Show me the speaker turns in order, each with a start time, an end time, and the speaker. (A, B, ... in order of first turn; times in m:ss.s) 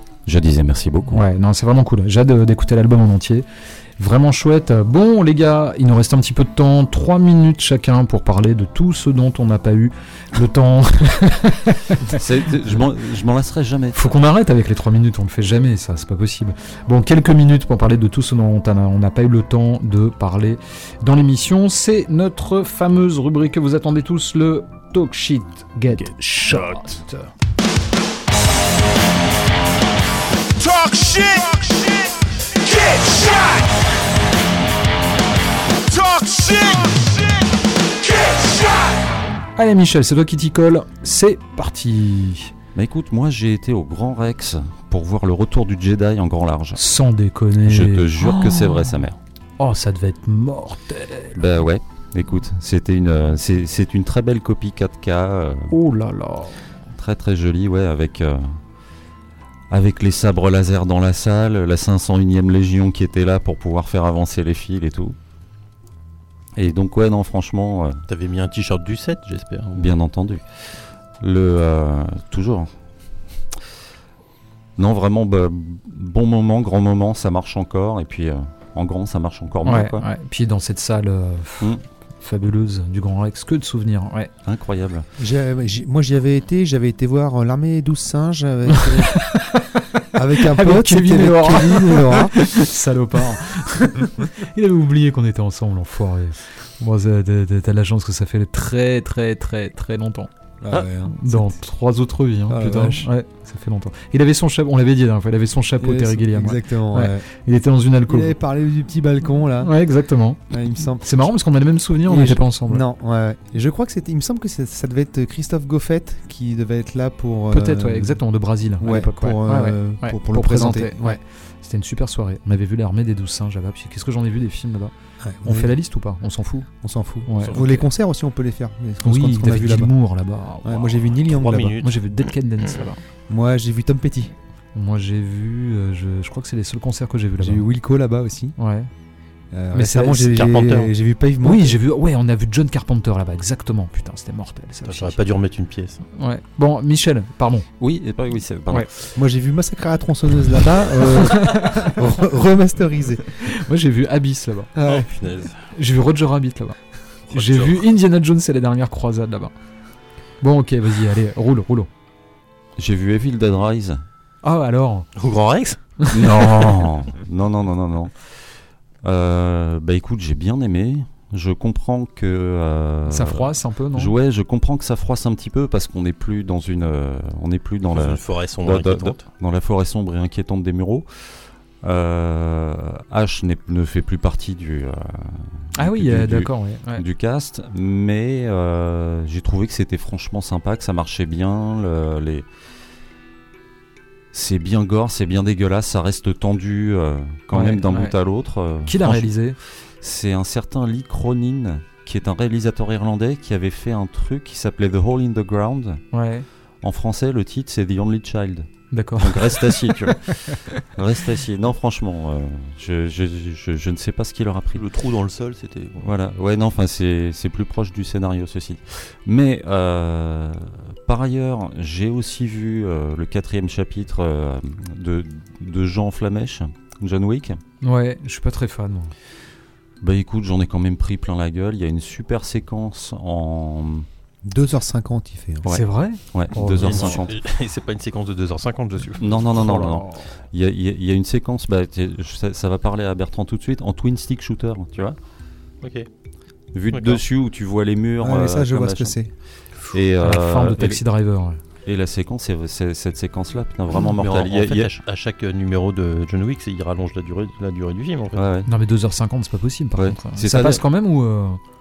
0:00.3-0:01.2 A
0:01.1-0:03.4 B
0:04.0-0:12.2 B
0:12.1-0:14.0 A
0:13.9-0:27.3 B
0:30.6-0:33.8 C
0:35.9-0:39.0 C
0:39.6-0:42.5 B
0:42.7-0:46.8 A
0:46.8-0:49.0 B
0:47.6-0:49.2 A
0:49.6-0:51.4 B
0:51.4-0:55.7 A
0:55.7-0:56.6 B
0:56.9-0:58.6 A
0:59.7-1:05.2 A
1:06.6-1:08.0 A
1:08.1-1:09.9 D
1:09.7-1:13.3 A
1:14.8-1:20.1 A
1:19.6-1:24.3 B
1:24.4-1:25.1 A
1:25.2-1:29.4 E
1:28.8-1:40.3 B
1:30.1-1:32.7 E
1:40.6-1:41.6 E
1:41.1-1:48.4 B
1:42.5-1:43.1 E
1:45.8-1:47.2 E
1:48.1-1:49.7 E
1:49.6-1:50.4 B
1:50.5-1:51.3 E
1:51.0-1:52.8 B
1:52.1-1:58.2 E
1:57.5-2:04.9 B
1:58.8-2:01.2 E
2:05.2-2:05.7 E
2:05.4-2:06.7 B
2:06.8-2:10.0 E
2:07.2-2:07.6 B
2:07.4-2:07.8 D
2:09.0-2:11.0 B
2:10.6-2:11.8 E
2:11.2-2:12.1 D
2:11.8-2:13.0 B
2:13.3-2:14.3 E
2:14.7-2:17.7 B
2:17.4-2:18.6 E
2:18.6-2:18.9 B
2:19.5-2:21.7 E
2:19.7-2:20.2 B
2:20.1-2:20.9 D
2:21.4-2:25.2 B
2:24.9-2:26.0 D
2:26.2-2:27.7 B
2:27.8-2:29.1 A
2:29.2-2:33.4 E
2:31.4-2:32.0 B
2:33.4-2:34.7 B
2:34.7-2:35.1 E
2:34.8-2:35.6 D
2:35.7-2:39.5 B
2:37.3-2:37.8 D
2:40.4-2:41.9 B
2:42.8-2:44.0 A
2:44.4-2:45.1 B
2:45.2-2:46.0 D
2:46.0-2:46.6 B
2:46.1-2:48.4 A
2:49.0-3:12.4 A
2:53.1-2:54.1 B
2:57.9-2:59.2 D
3:05.8-3:07.0 B
3:14.3-3:26.1 A
3:17.5-3:18.1 B
3:18.8-3:19.6 B
3:26.1-3:26.4 B
3:26.8-3:34.8 A
3:28.9-3:30.0 B
3:34.7-3:36.1 D
3:36.0-3:47.6 A
3:47.8-3:49.1 B
3:50.0-3:54.1 A
3:54.4-3:55.6 E
3:55.6-3:57.4 A
3:55.7-3:57.2 B
3:56.8-3:59.5 D
3:59.2-4:05.2 A
3:59.6-4:00.3 B
4:05.8-4:06.1 D
4:06.7-4:11.1 A
4:06.9-4:07.2 D
4:08.2-4:09.3 E
4:10.2-4:11.6 B
4:11.8-4:14.9 A
4:14.2-4:18.4 D
4:18.4-4:18.7 A
4:18.7-4:21.6 B
4:20.0-4:20.8 A